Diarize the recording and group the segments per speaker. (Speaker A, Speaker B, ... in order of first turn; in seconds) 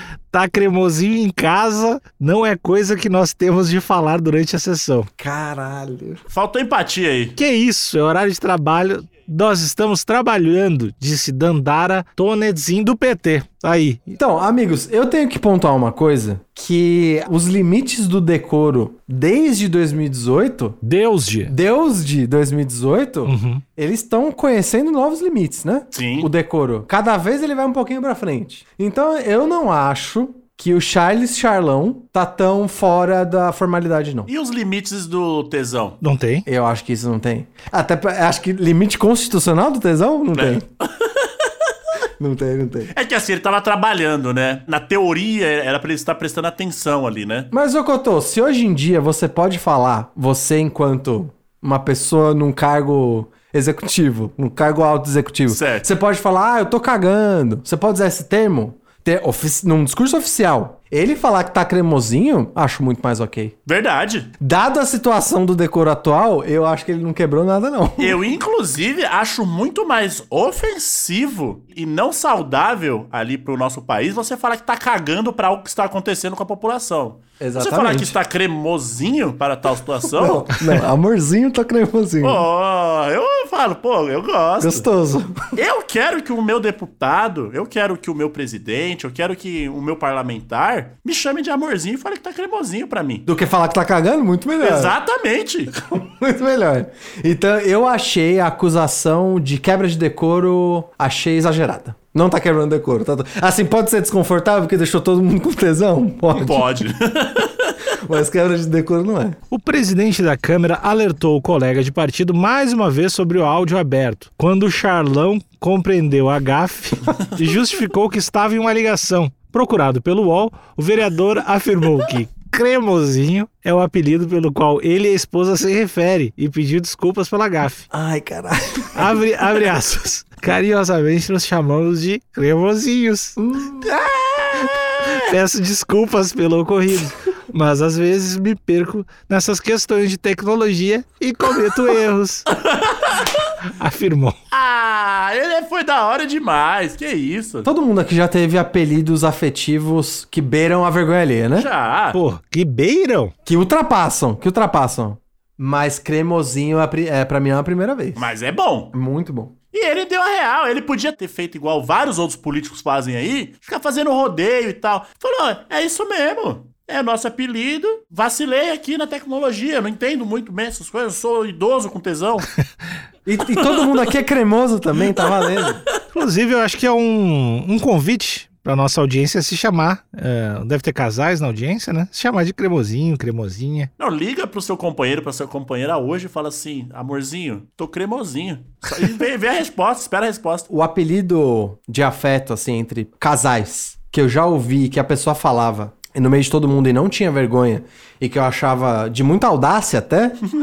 Speaker A: 0.3-5.1, 7.4-14.1, 20.8-21.5, 23.2-23.6, 36.0-36.5, 109.5-127.9, 128.9-133.4, 135.1-142.5, 143.8-144.3, 152.1-153.3, 176.1-183.9
Speaker B: 5.2-6.2, 14.1-20.8, 21.5-34.3, 36.5-40.6, 42.2-42.9, 47.5-63.5, 64.4-68.2, 77.4-78.2, 80.1-82.5, 84.6-85.4, 93.3-94.9, 95.9-106.7, 108.0-109.4, 127.9-129.2, 133.4-133.9, 147.6-151.7, 153.5-158.3, 158.9-159.6, 173.3-175.8, 190.7-200.4
Speaker C: 6.3-7.4, 25.9-26.3, 34.3-36.0, 40.4-41.5, 42.9-47.5, 55.5-55.9, 63.7-64.3, 68.0-80.8, 82.2-84.9, 85.6-93.3, 94.6-95.8, 106.3-107.8, 133.8-135.1, 142.6-143.2, 144.5-147.7, 151.6-152.2, 158.2-158.9, 159.7-172.5, 173.6-173.9, 175.2-175.7, 184.0-190.7